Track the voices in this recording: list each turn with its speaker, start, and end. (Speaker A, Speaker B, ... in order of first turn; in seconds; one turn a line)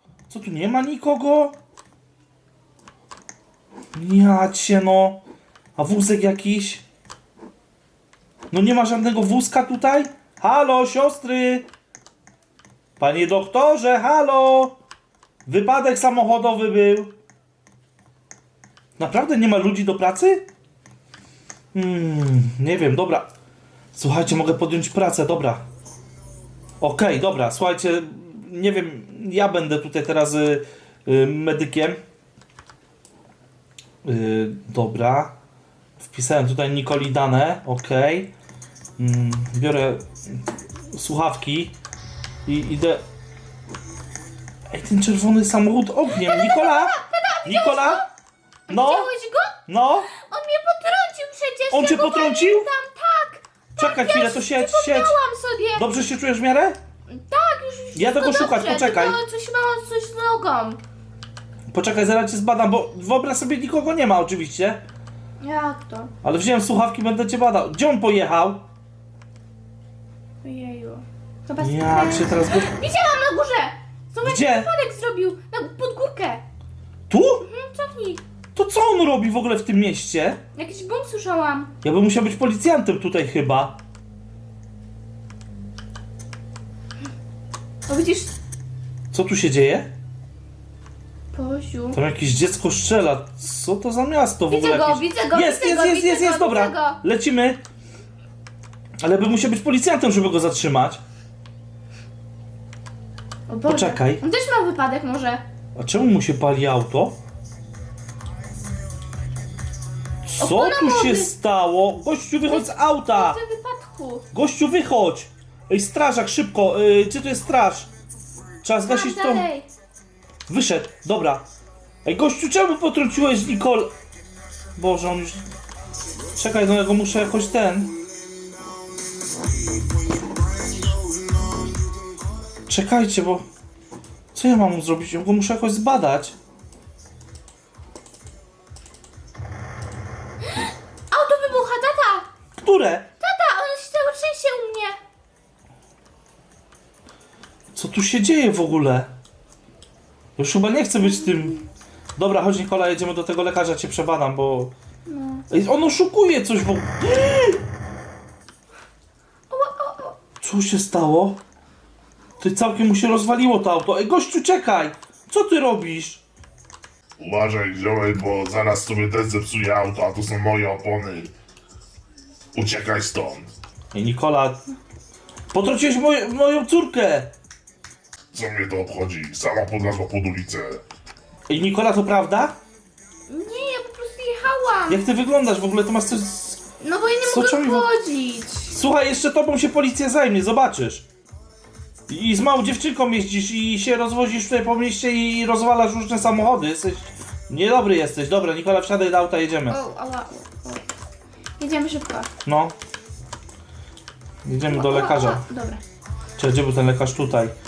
Speaker A: 0.3-1.6
Speaker A: 4.0-5.2
Speaker A: 5.8-6.8
Speaker A: 8.5-11.7
Speaker A: 13.0-14.8
Speaker A: 15.5-17.1
Speaker A: 19.0-20.4
Speaker A: 21.7-23.3
Speaker A: 23.9-25.6
Speaker A: 26.8-32.0
Speaker A: 34.0-35.3
Speaker A: 36.0-38.3
Speaker A: 39.0-41.8
Speaker A: 42.5-43.0
Speaker A: 44.7-48.0
Speaker B: 46.1-48.1
Speaker B: 48.7-49.6
Speaker A: 48.7-49.1
Speaker A: 49.7-50.1
Speaker B: 50.1-55.9
Speaker A: 51.7-52.7
Speaker A: 53.8-55.1
Speaker A: 55.8-56.8
Speaker B: 57.1-60.8
Speaker A: 58.0-59.2
Speaker A: 61.7-64.8
Speaker B: 65.4-66.1
Speaker A: 66.2-68.7
Speaker B: 70.4-76.4
Speaker A: 71.6-72.7
Speaker A: 74.2-74.7
Speaker A: 77.1-77.5
Speaker B: 77.4-78.2
Speaker A: 78.6-80.4
Speaker B: 80.5-81.7
Speaker A: 81.8-83.8
Speaker B: 87.9-88.3
Speaker A: 89.1-89.9
Speaker B: 91.3-92.0
Speaker A: 91.9-97.6
Speaker B: 94.5-97.0
Speaker A: 99.0-101.0
Speaker B: 103.5-105.4
Speaker A: 103.7-104.2
Speaker A: 105.8-107.2
Speaker A: 110.2-113.4
Speaker B: 110.4-111.3
Speaker B: 112.5-114.2
Speaker A: 114.3-117.9
Speaker A: 118.6-119.5
Speaker B: 118.8-119.7
Speaker A: 120.5-121.4
Speaker A: 122.0-123.9
Speaker A: 124.8-125.4
Speaker A: 126.3-127.9
Speaker A: 132.7-133.4
Speaker A: 134.3-136.3
Speaker B: 141.1-142.3
Speaker A: 142.6-143.1
Speaker B: 143.2-145.0
Speaker A: 147.8-149.1
Speaker A: 150.4-151.6
Speaker B: 151.0-151.6
Speaker A: 152.2-154.7
Speaker B: 155.1-155.4
Speaker A: 155.5-157.6
Speaker B: 159.5-160.2
Speaker A: 160.4-161.4
Speaker A: 162.4-166.2
Speaker C: 167.2-171.3
Speaker C: 172.6-173.5
Speaker A: 173.9-174.7
Speaker A: 175.5-177.3
Speaker C: 178.3-180.8
Speaker A: 181.5-182.6
Speaker B: 183.3-185.0
Speaker A: 184.9-186.6
Speaker B: 186.8-188.8
Speaker A: 187.2-187.9
Speaker A: 188.7-191.1
Speaker A: 192.1-199.8
Speaker B: 199.7-200.8
Speaker B: 201.6-202.3
Speaker A: 202.4-202.8
Speaker A: 204.4-205.4
Speaker B: 204.7-205.8
Speaker A: 206.4-207.5